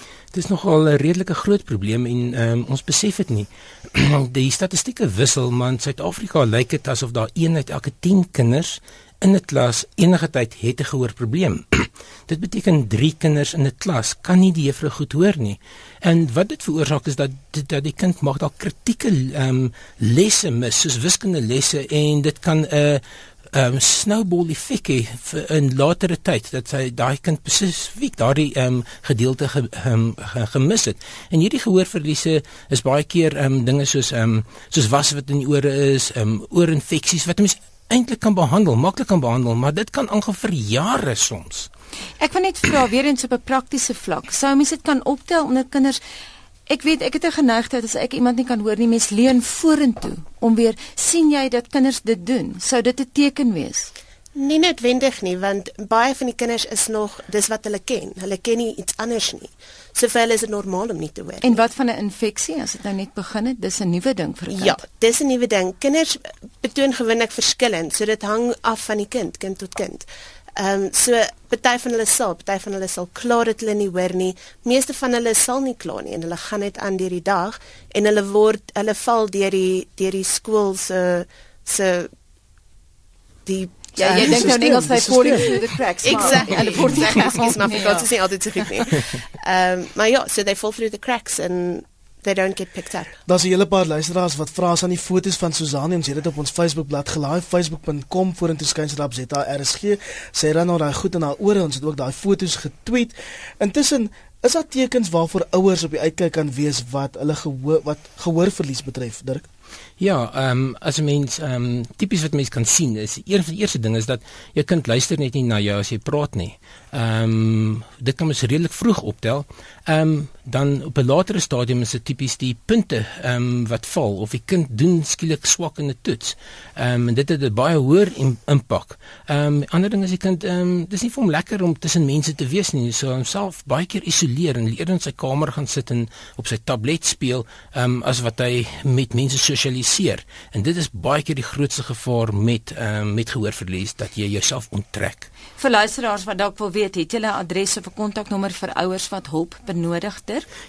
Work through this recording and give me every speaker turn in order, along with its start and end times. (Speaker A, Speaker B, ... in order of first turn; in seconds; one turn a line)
Speaker A: 0.3-41.7
Speaker B: 42.2-46.0
Speaker B: 46.7-53.9
Speaker C: 54.4-61.6
Speaker B: 61.4-64.8
Speaker C: 64.5-70.1
Speaker C: 70.6-82.1
Speaker C: 83.5-84.7
Speaker B: 84.0-88.1
Speaker D: 84.3-85.5
Speaker C: 86.0-93.1
Speaker D: 93.3-109.5
Speaker A: 110.0-145.3
Speaker B: 145.6-150.5